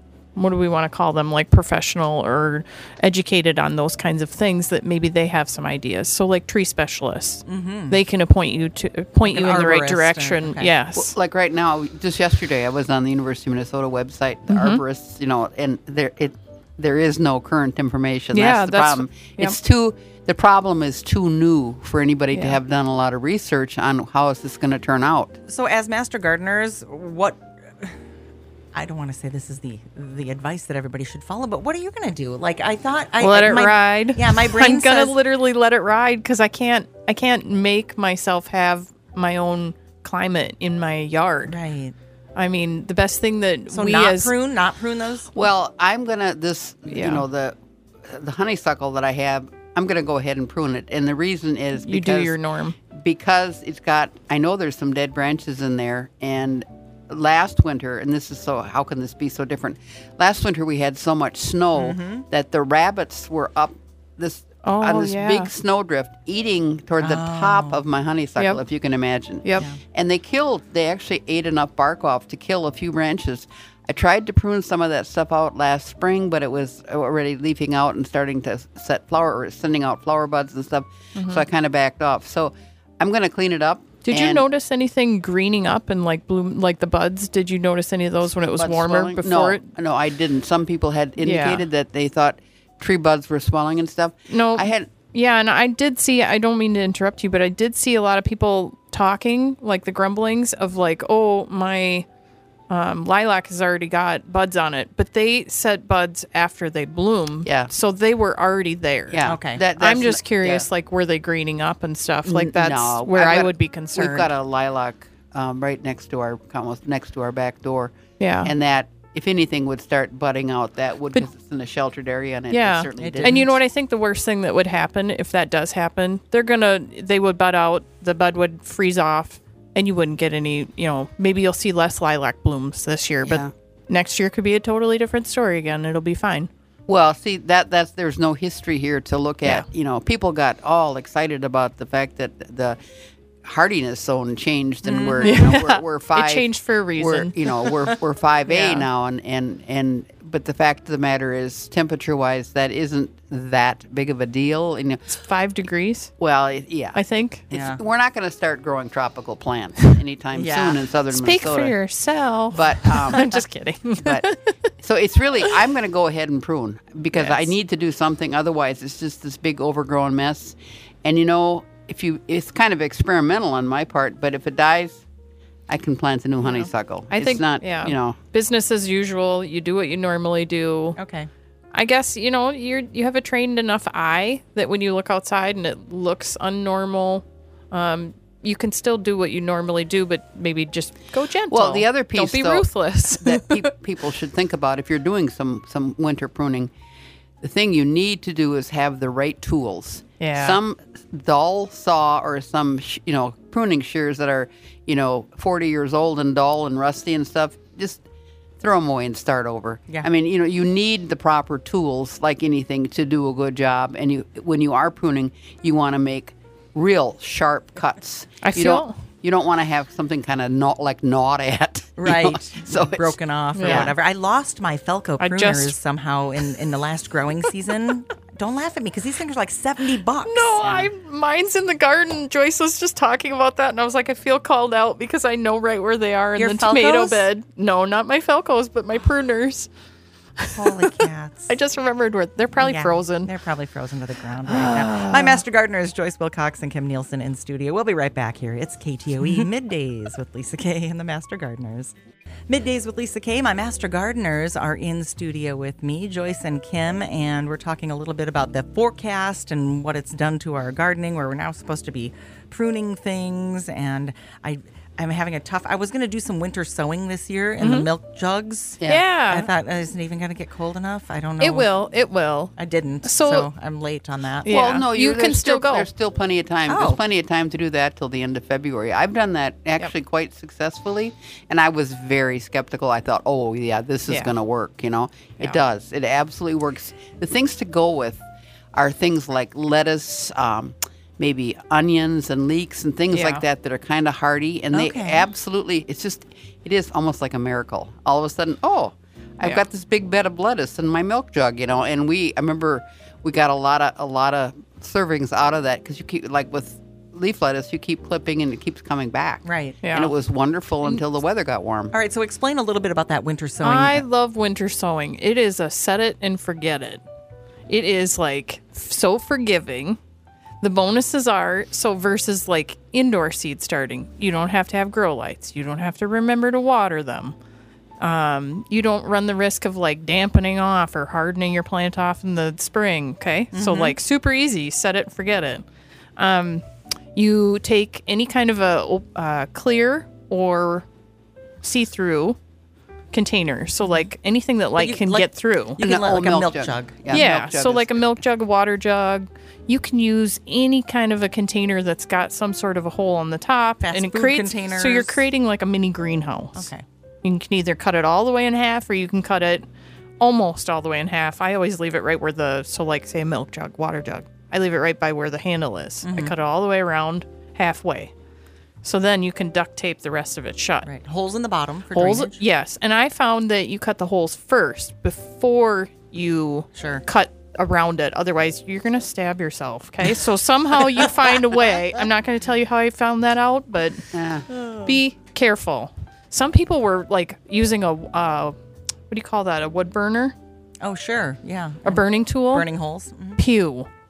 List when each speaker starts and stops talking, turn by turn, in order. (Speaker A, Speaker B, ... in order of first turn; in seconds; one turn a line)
Speaker A: 0.3-11.1
Speaker B: 7.5-8.0
Speaker B: 9.2-10.7
Speaker C: 10.9-25.4
Speaker A: 14.5-14.8
Speaker A: 18.3-19.6
Speaker A: 22.3-22.6
Speaker B: 25.5-28.0
Speaker B: 28.7-35.1
Speaker A: 33.2-41.6
Speaker B: 41.5-41.9
Speaker A: 42.3-44.3
Speaker B: 43.7-45.3
Speaker C: 45.3-52.4
Speaker A: 46.9-47.2
Speaker A: 51.8-52.8
Speaker C: 52.9-84.4
Speaker B: 61.7-62.2
Speaker A: 64.6-65.5
Speaker B: 67.0-67.8
Speaker A: 81.1-81.5
Speaker A: 84.0-89.6
Speaker C: 88.4-94.9
Speaker A: 91.2-91.6
Speaker A: 94.3-102.0
Speaker A: 102.7-109.2
Speaker C: 109.1-110.7
Speaker B: 109.2-109.6
Speaker A: 109.8-114.3
Speaker C: 112.2-117.9
Speaker A: 118.2-118.5
Speaker C: 118.4-123.5
Speaker A: 122.5-136.5
Speaker B: 123.0-123.5
Speaker C: 133.2-133.5
Speaker C: 136.9-142.8
Speaker C: 143.4-146.4
Speaker B: 144.8-145.4
Speaker A: 145.2-147.7
Speaker C: 147.0-155.2
Speaker A: 148.5-148.9
Speaker A: 155.1-156.1
Speaker C: 156.2-157.0
Speaker A: 156.9-157.4
Speaker C: 157.5-161.7
Speaker B: 157.5-157.8
Speaker B: 160.3-160.8
Speaker A: 161.1-164.5
Speaker C: 162.5-163.4
Speaker C: 163.9-164.2
Speaker C: 164.8-175.0
Speaker A: 167.1-167.5
Speaker C: 175.7-178.2
Speaker A: 176.4-181.0
Speaker B: 180.9-181.3
Speaker A: 181.7-193.7
Speaker C: 191.5-196.7
Speaker C: 197.4-208.0
Speaker A: 200.2-200.6
Speaker C: 208.6-223.9
Speaker A: 218.4-219.0
Speaker B: 222.0-230.9
Speaker A: 223.5-223.9
Speaker A: 225.2-225.8
Speaker A: 230.2-239.7
Speaker B: 236.3-237.3
Speaker A: 240.4-241.0
Speaker B: 240.5-241.6
Speaker A: 241.5-243.3
Speaker B: 242.6-251.9
Speaker A: 244.4-245.4
Speaker B: 252.5-271.7
Speaker A: 267.6-267.9
Speaker A: 268.9-269.5
Speaker A: 271.4-273.5
Speaker B: 272.6-274.5
Speaker A: 274.4-275.9
Speaker C: 274.5-288.2
Speaker B: 276.7-277.0
Speaker A: 284.1-284.3
Speaker C: 288.7-311.9
Speaker A: 293.1-293.4
Speaker B: 294.7-295.3
Speaker B: 309.4-309.8
Speaker A: 309.8-310.1
Speaker B: 311.9-314.0
Speaker A: 313.6-317.0
Speaker A: 317.7-320.0
Speaker A: 320.6-327.3
Speaker A: 328.0-335.6
Speaker B: 333.5-334.0
Speaker A: 336.2-336.6
Speaker A: 337.1-340.9
Speaker A: 341.6-342.4
Speaker A: 343.1-345.8
Speaker B: 344.8-347.2
Speaker C: 345.8-348.1
Speaker A: 347.1-356.7
Speaker B: 353.8-355.2
Speaker B: 356.5-356.8
Speaker A: 357.2-359.6
Speaker A: 360.2-368.1
Speaker B: 366.0-366.4
Speaker A: 368.8-370.9
Speaker B: 370.8-372.4
Speaker A: 371.9-388.5
Speaker B: 376.7-377.0
Speaker C: 384.1-384.4
Speaker A: 389.1-390.3
Speaker B: 390.8-393.4
Speaker A: 391.8-392.7
Speaker A: 393.4-393.9